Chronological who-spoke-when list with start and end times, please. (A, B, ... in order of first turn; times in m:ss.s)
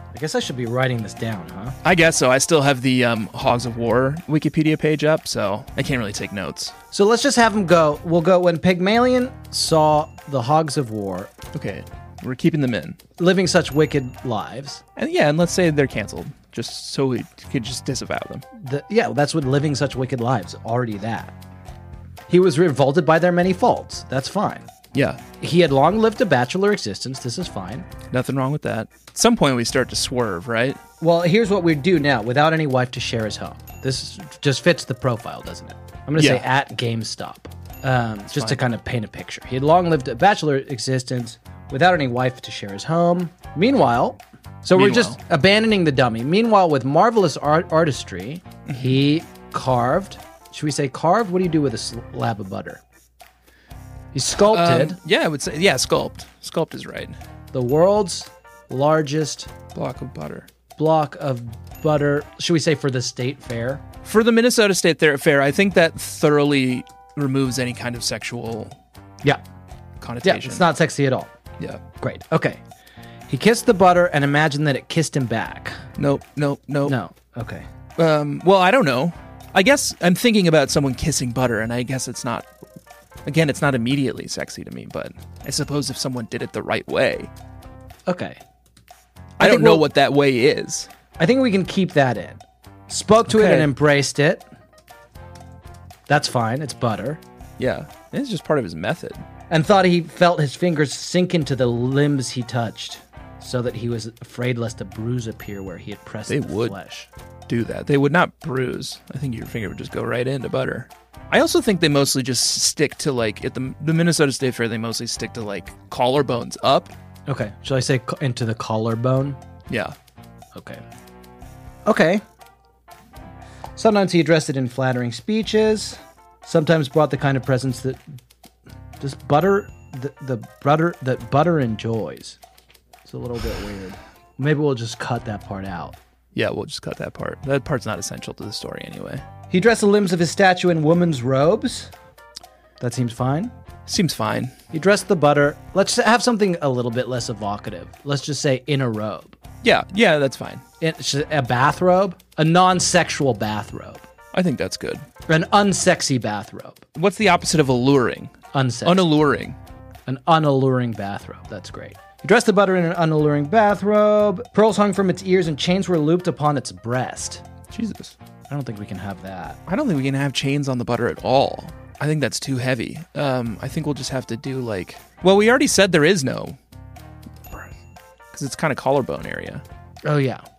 0:00.1-0:01.8 A
0:01.8-0:06.7 B
0:06.9-0:11.3 A
0:11.5-0:13.0 B
0:13.2-0:14.8 A
0:15.0-0:18.4 B
0:18.6-0:21.3 A
0:22.3-0:24.7 A
0:24.9-0:25.2 B
0:25.4-0:27.9 A
0:28.1-0:30.8 B
0:31.0-0:52.8 A
0:36.2-0:36.4 B
0:38.3-0:38.6 B
0:44.7-0:45.2 B
0:48.6-0:49.0 B
0:54.1-0:55.0 A
0:54.4-0:57.2 B
0:57.5-0:59.5 A
0:59.7-1:00.5 B
1:00.8-1:03.8 A
1:04.0-1:08.8 B
1:10.0-1:10.6 B
1:10.2-1:11.3 A
1:12.0-1:12.6 A
1:13.3-1:15.8 A
1:16.0-1:17.0 B
1:16.8-1:17.6 A
1:18.0-1:22.5 B
1:23.2-1:27.3 B
1:28.1-1:28.4 A
1:29.4-1:30.9 B
1:29.4-1:29.8 A
1:31.2-1:34.4 A
1:33.3-1:33.7 B
1:36.1-1:37.2 A
1:37.6-1:39.2 B
1:39.5-1:47.1 A
1:46.3-1:46.8 B
1:47.5-1:56.9 B
1:57.3-1:59.4 A
1:59.7-2:00.0 B
2:00.5-2:00.8 A
2:01.8-2:02.2 A
2:03.8-2:08.0 A
2:09.0-2:12.4 A
2:13.0-2:16.0 A
2:16.3-2:19.2 B
2:19.5-2:21.9 A
2:22.8-2:23.5 A
2:23.9-2:24.6 B
2:24.7-2:29.4 A
2:29.6-2:30.6 B
2:30.8-2:34.1 A
2:34.3-2:35.0 B
2:35.3-2:36.8 A
2:36.9-2:38.3 B
2:38.5-2:39.1 A
2:38.8-2:39.6 B
2:40.1-2:47.4 A
2:47.7-2:48.1 B
2:48.5-2:49.6 A
2:49.7-2:56.6 B
2:58.3-2:59.6 B
3:00.0-3:00.4 A